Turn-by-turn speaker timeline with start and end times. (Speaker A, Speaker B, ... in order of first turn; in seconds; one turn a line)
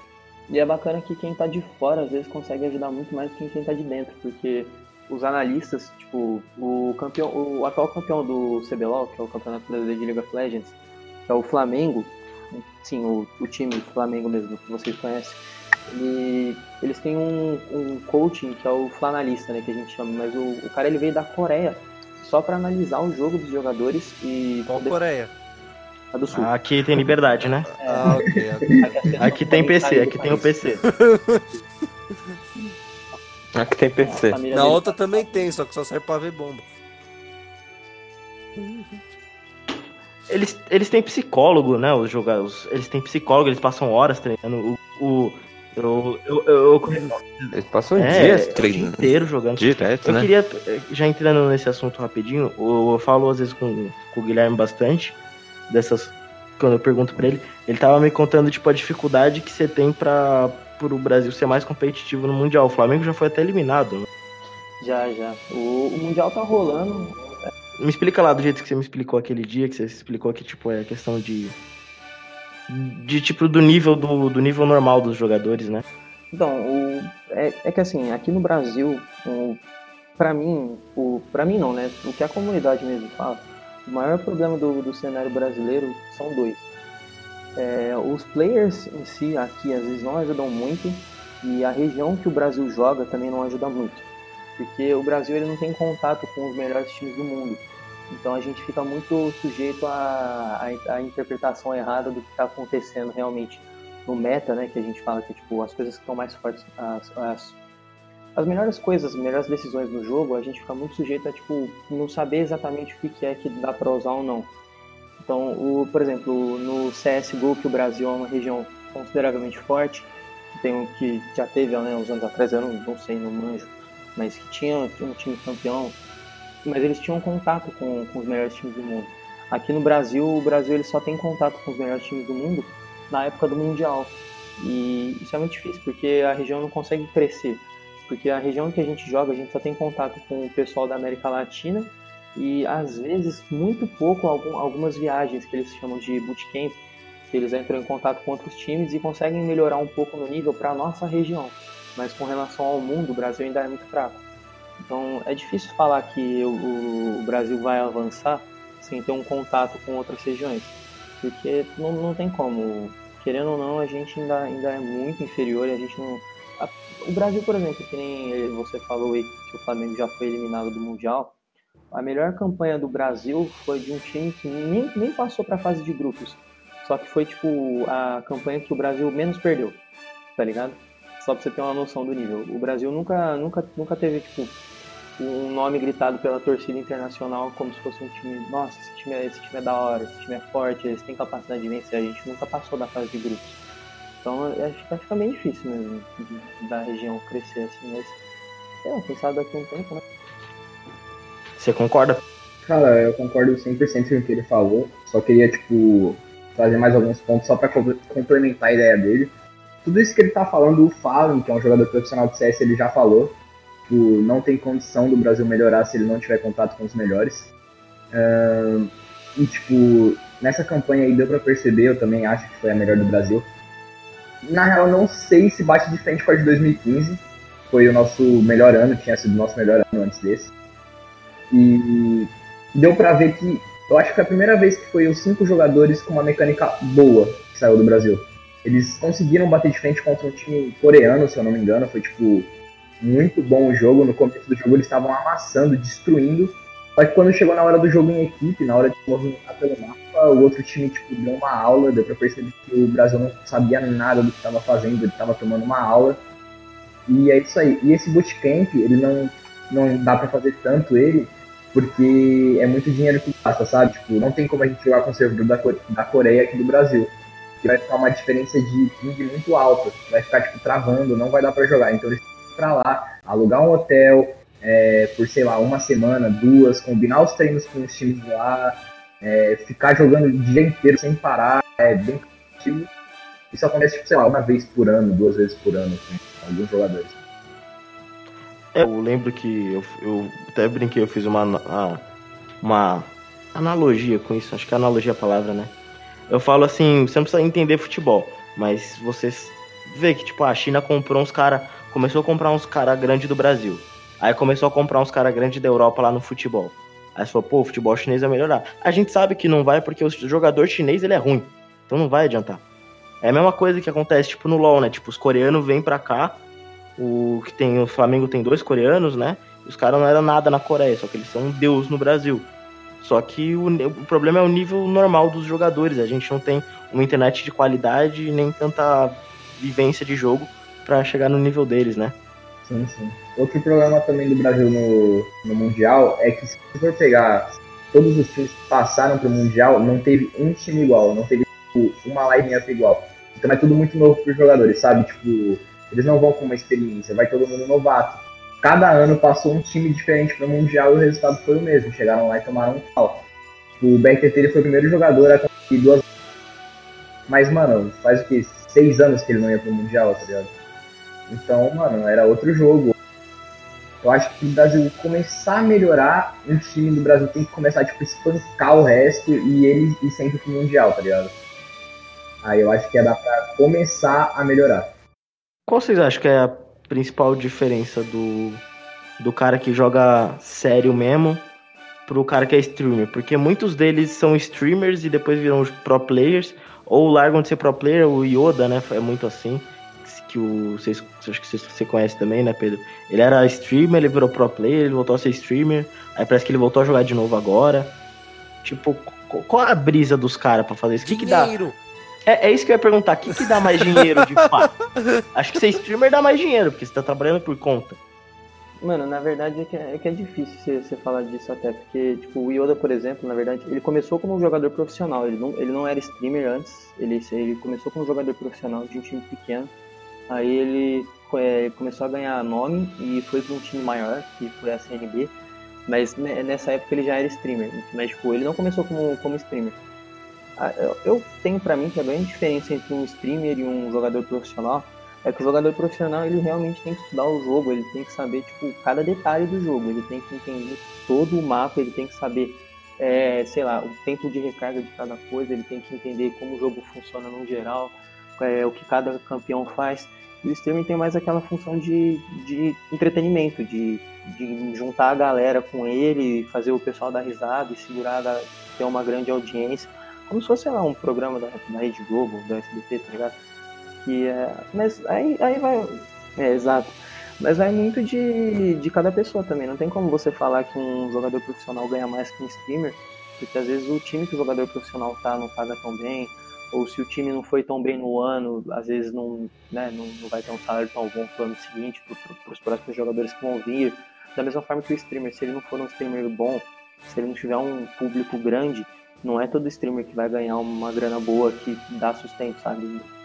Speaker A: 0.5-25.0
Speaker B: 24.7-25.3
Speaker A: 26.1-26.5
Speaker C: 26.3-27.7
Speaker B: 27.7-29.2
Speaker A: 27.8-30.6
Speaker C: 29.2-30.8
Speaker B: 30.9-31.5
Speaker D: 33.5-34.4
Speaker A: 34.0-35.6
Speaker B: 34.5-36.6
Speaker B: 38.6-39.0
Speaker C: 40.3-47.4
Speaker D: 47.5-50.3
Speaker C: 48.0-55.2
Speaker C: 55.7-64.1
Speaker A: 64.8-67.5
Speaker C: 67.8-71.5
Speaker C: 72.7-75.8
Speaker A: 76.3-79.6
Speaker A: 80.2-86.7
Speaker A: 87.5-94.0
Speaker A: 94.6-107.6
Speaker A: 108.3-114.5
Speaker A: 115.2-126.0
Speaker A: 126.6-154.2
Speaker A: 154.8-171.3
Speaker A: 171.9-179.8
Speaker A: 180.3-184.5
Speaker A: 185.2-193.6
Speaker A: 194.2-198.2
Speaker A: 198.8-200.0
Speaker C: 201.6-202.2
Speaker E: 202.6-209.3
Speaker E: 209.8-217.5
Speaker E: 218.1-223.5
Speaker E: 224.4-230.5
Speaker E: 231.5-256.2
Speaker E: 257.1-267.1
Speaker E: 267.6-282.9
Speaker E: 283.5-287.1
Speaker C: 288.7-292.0
Speaker C: 292.6-295.8
Speaker C: 296.3-312.6
Speaker C: 313.2-316.4
Speaker C: 317.0-332.2
Speaker E: 332.6-353.2
Speaker E: 353.8-356.0
Speaker E: 357.3-360.5
Speaker E: 361.3-362.9
Speaker E: 364.0-371.3
Speaker E: 372.4-374.9
Speaker C: 375.7-378.6
Speaker C: 379.2-381.5
Speaker C: 382.1-398.0
Speaker C: 398.6-401.6
Speaker B: 401.0-401.8
Speaker C: 402.2-404.7
Speaker B: 403.4-404.0
Speaker C: 405.3-408.0
Speaker A: 408.8-419.7
Speaker A: 420.3-425.3
Speaker A: 425.9-429.8
Speaker A: 430.6-463.4
Speaker A: 464.0-493.1